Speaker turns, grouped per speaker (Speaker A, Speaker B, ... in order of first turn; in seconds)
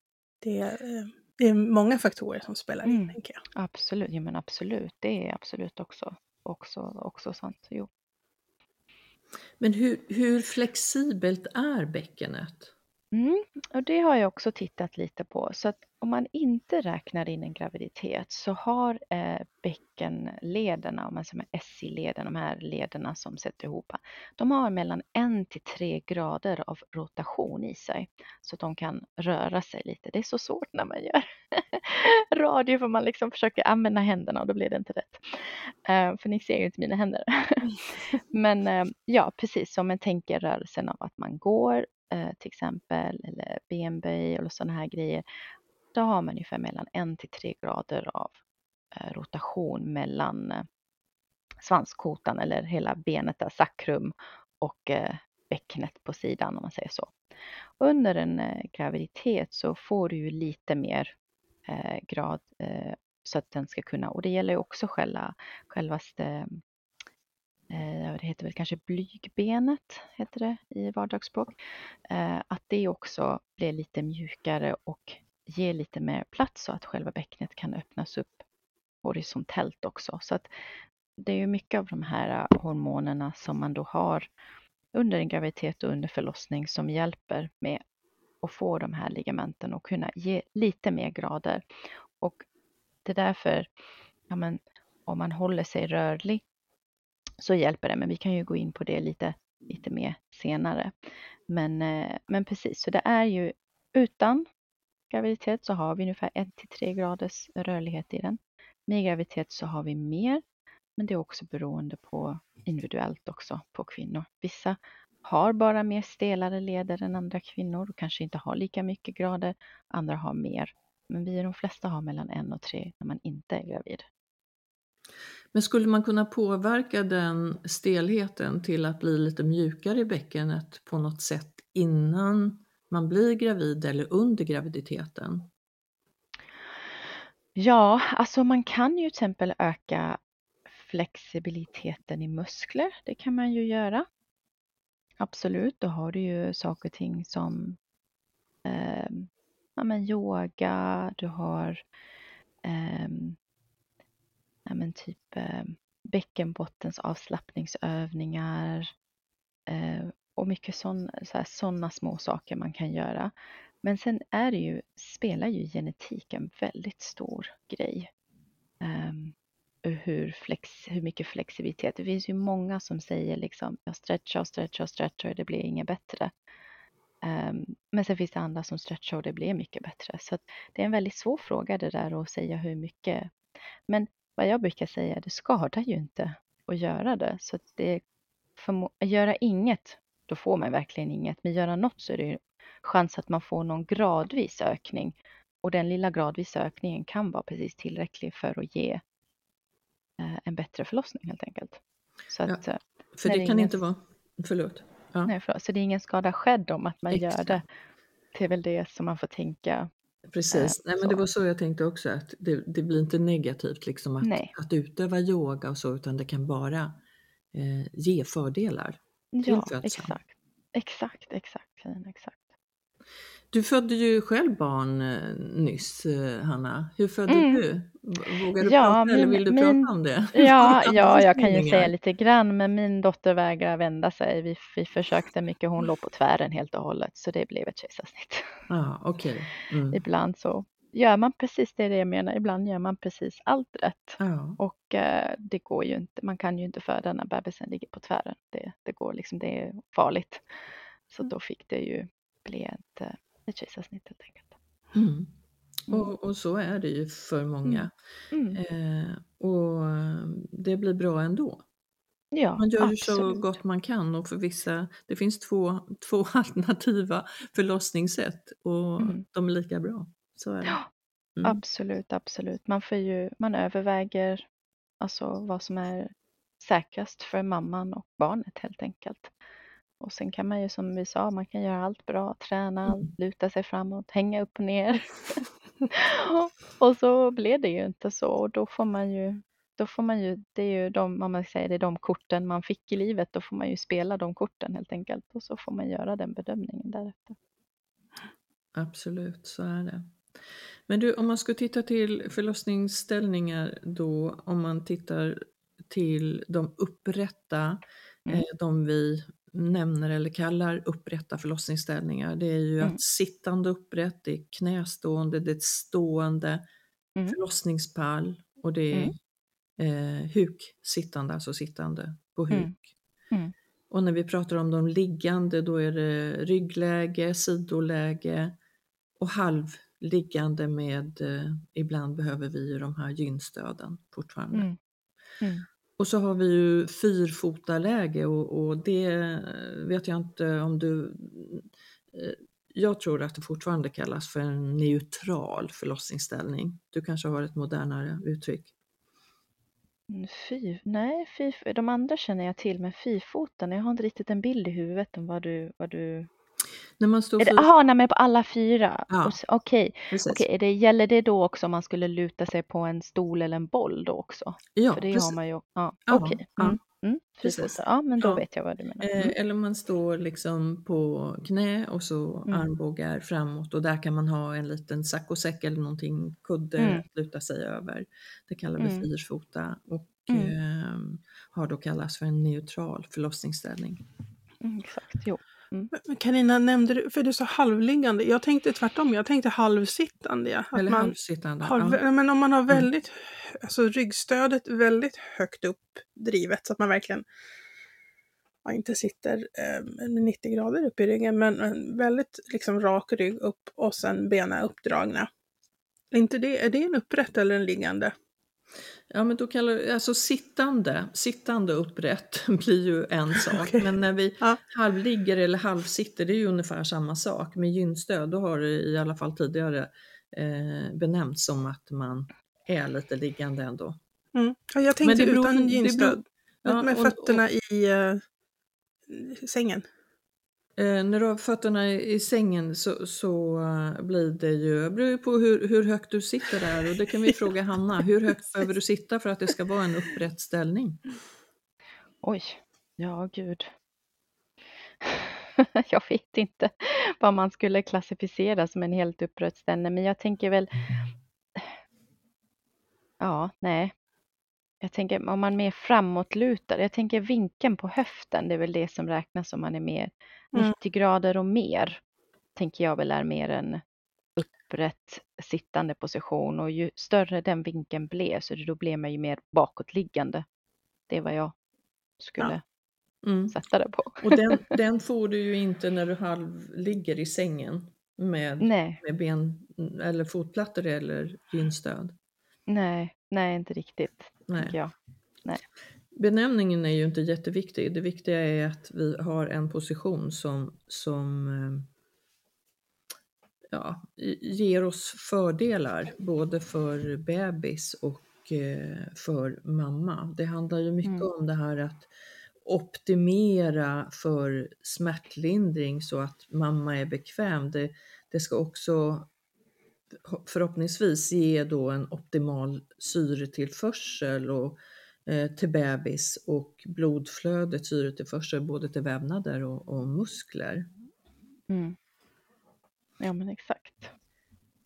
Speaker A: 0.4-3.4, 385.9-397.2, 398.6-405.3, 406.1-408.1, 413.5-413.9, 424.3-428.2, 429.1-429.8
Speaker B: 2.8-7.9, 13.1-37.8, 38.3-45.2, 45.9-48.4, 48.9-50.6, 51.6-57.1, 57.8-61.1, 61.7-66.6, 67.7-71.5, 72.1-78.4, 79.0-80.5, 81.2-84.3, 84.9-87.8, 88.4-91.6, 93.0-93.7, 94.3-96.4, 97.4-100.9, 101.5-104.5, 105.1-110.4, 111.0-124.0, 137.6-140.2, 140.7-144.1, 145.2-147.8, 148.6-151.8, 152.6-153.4, 154.7-158.9, 159.7-163.3, 163.8-168.1, 168.8-169.3, 169.8-176.3, 177.2-183.3, 183.9-188.0, 188.6-199.0, 200.2-203.7, 205.3-207.6, 208.3-209.9, 210.5-211.2, 214.2-214.5, 219.3-222.5, 227.3-227.6, 228.6-238.6, 239.9-250.4, 251.1-254.5, 257.6-258.6, 262.3-263.6, 271.4-274.4, 275.0-279.3, 280.0-297.4, 335.4-335.6, 350.1-356.3, 357.4-369.3, 376.8-377.0, 378.8-379.1, 380.3-380.5, 384.6-385.9, 442.2-443.7, 445.0-450.7, 453.2-453.9, 454.8-462.0, 462.6-463.8, 464.4-470.4, 471.1-471.5, 472.2-472.6, 473.5-474.7, 478.6-479.0, 482.7-484.9, 521.7-522.0, 523.2-524.1
Speaker C: 9.6-12.7, 125.5-135.5, 203.2-205.3, 207.1-207.6, 210.3-217.0, 217.5-220.2, 223.5-231.9, 238.7-240.0, 244.2-244.6, 254.9-255.3, 255.9-257.9, 258.5-261.6, 262.6-270.8, 298.7-300.1, 300.9-316.6, 317.3-319.1, 319.8-322.8, 323.9-328.6, 329.2-334.7, 336.0-348.7, 357.0-357.7, 359.1-359.4, 360.1-360.4, 364.7-365.4, 366.1-366.8, 367.4-368.4, 369.0-384.0, 390.7-392.0, 409.1-424.0, 425.0-427.4, 430.8-441.0, 473.2-473.6, 474.2-482.1, 484.5-484.8, 486.1-491.9, 493.7-502.1, 502.6-509.3, 510.2-520.9